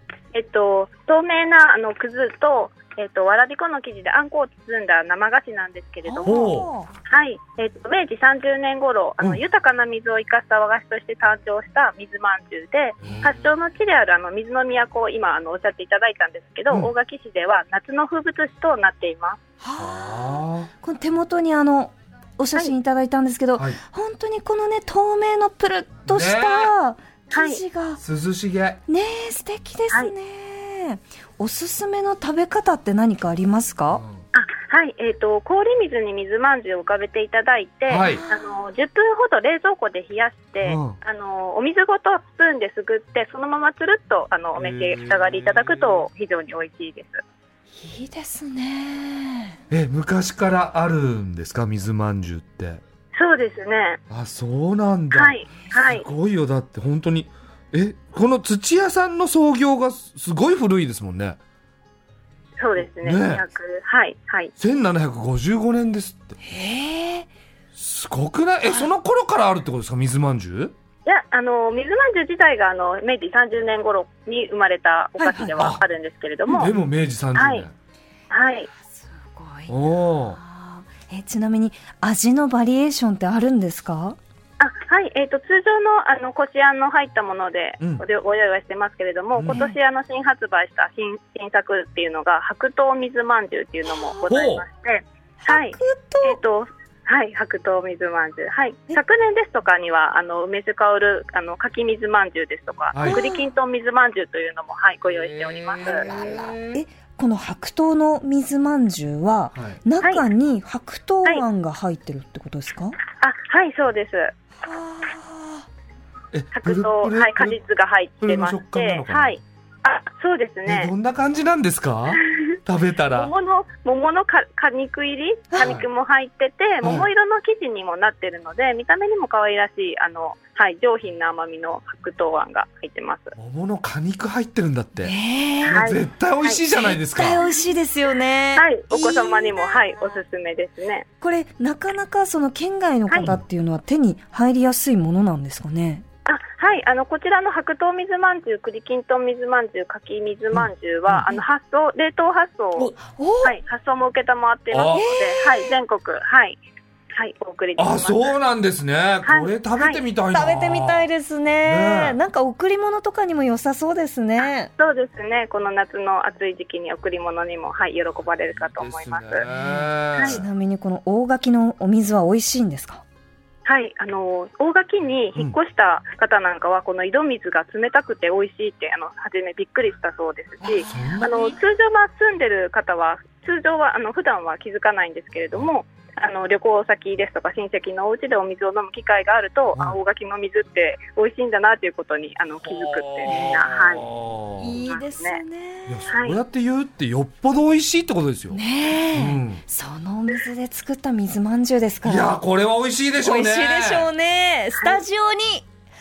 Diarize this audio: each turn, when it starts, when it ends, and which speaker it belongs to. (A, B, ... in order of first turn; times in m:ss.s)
0:00.3-0:06.4 A
0:06.0-0:06.9 B
0:06.2-0:06.7 C
0:07.1-0:19.4 A
0:13.0-0:13.4 C
0:13.1-0:13.3 B
0:19.6-0:28.0 B
0:19.8-0:20.7 C
0:26.1-0:26.7 C
0:27.3-0:27.6 A
0:28.0-0:28.8 C
0:28.9-0:34.0 B
0:33.9-0:34.2 C
0:34.3-0:47.2 A
0:37.9-0:38.2 C
0:38.0-0:38.5 B
0:40.6-0:41.0 C
0:44.6-0:46.1 C
0:47.8-0:49.6 B
0:49.7-0:52.8 C
0:53.1-0:54.0 A
0:54.1-1:01.4 C
0:55.1-0:56.1 A
1:02.6-1:04.5 A
1:03.0-1:03.4 C
1:04.6-1:06.4 C
1:06.4-1:07.3 B
1:07.8-1:10.7 C
1:11.1-1:16.7 A
1:15.2-1:15.7 B
1:15.6-1:15.8 C
1:16.5-1:17.7 C
1:17.4-1:17.6 A
1:18.3-1:18.7 A
1:18.9-1:24.2 B
1:19.7-1:20.4 C
1:24.6-1:46.1 A
1:29.4-1:29.6 C
1:29.5-1:29.8 B
1:34.3-1:34.6 C
1:35.4-1:36.4 B
1:42.9-1:43.3 C
1:43.0-1:43.4 B
1:45.1-1:46.8 C
1:46.0-1:53.0 B
1:53.2-1:54.3 A
1:54.6-1:55.7 B
1:56.3-1:57.6 C
1:56.5-2:00.9 A
1:58.2-1:59.4 C
2:00.7-2:03.3 C
2:03.1-2:13.4 A
2:05.6-2:05.8 C
2:06.8-2:07.1 C
2:13.4-2:15.1 C
2:15.0-2:15.8 B
2:15.6-2:17.4 C
2:15.7-2:16.6 A
2:16.7-2:19.8 B
2:18.6-2:21.1 A
2:21.2-2:26.0 B
2:26.3-2:36.6 A
2:30.5-2:31.3 C
2:33.0-2:33.6 B
2:34.7-2:35.1 C
2:34.9-2:35.7 B
2:37.2-2:38.3 A
2:37.8-2:41.1 C
2:39.2-2:40.0 A
2:40.3-2:44.7 B
2:41.6-2:42.2 C
2:44.8-2:49.4 A
2:48.6-2:50.4 C
2:49.6-2:53.0 B
2:53.6-3:14.0 A
3:00.8-3:01.6 C
3:00.8-3:01.1 B
3:12.7-3:14.8 C
3:13.3-3:13.6 B
3:14.6-3:16.1 B
3:14.9-3:15.4 A
3:15.9-3:18.6 C
3:16.1-3:16.4 A
3:18.5-3:22.4 B
3:19.1-3:19.6 C
3:22.0-3:24.1 C
3:23.2-3:25.7 B